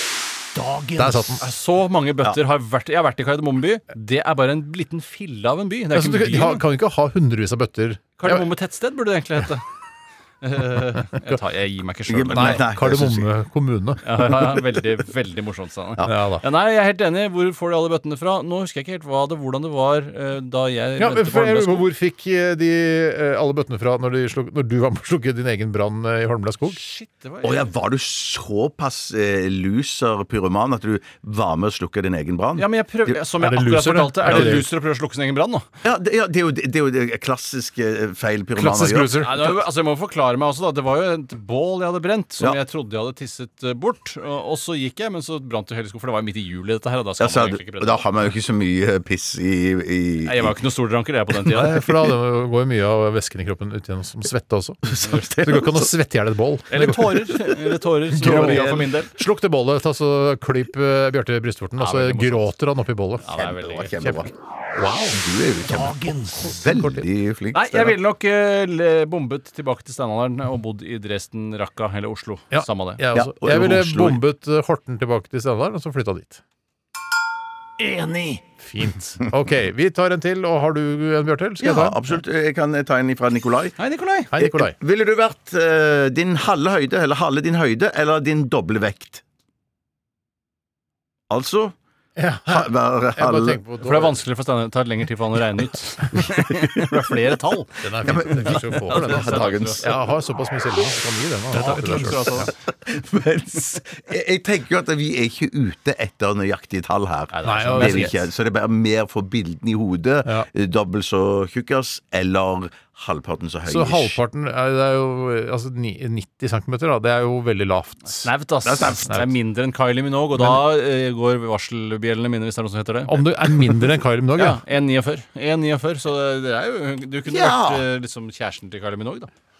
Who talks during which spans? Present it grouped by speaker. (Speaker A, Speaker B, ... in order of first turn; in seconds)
Speaker A: 0.6-6.6, 8.2-9.6, 10.4-12.6, 14.0-21.8, 26.7-27.7, 32.6-35.6, 39.2-48.0, 50.2-51.9, 55.0-55.6, 56.7-59.1, 61.8-62.5, 63.2-63.9, 65.8-66.5, 67.5-73.0, 77.8-78.4, 83.8-84.3, 93.8-99.9, 101.5-102.5, 107.3-108.2, 118.1-123.2, 124.4-129.3
Speaker B: 1.0-1.4, 5.9-8.4, 12.3-14.3, 16.0-16.4, 21.0-26.8, 33.4-34.7, 38.5-39.3, 51.5-63.2, 64.0-64.2, 64.8-65.2, 66.5-67.0, 72.5-76.4, 78.6-82.2, 84.3-84.7, 92.2-94.2, 97.8-102.5, 107.4-108.1, 113.7-118.3, 120.4-120.6, 123.1-124.6
Speaker C: 12.1-13.3, 27.4-33.2, 34.3-34.5, 35.8-39.6, 47.2-50.5, 55.0-55.8, 58.2-58.9, 63.3-64.3, 65.1-68.0, 73.1-74.2, 81.6-83.8, 84.3-89.2, 91.3-91.7, 92.5-93.6, 96.4-96.6, 98.0-100.0, 101.6-114.2, 118.6-119.2, 127.3-127.8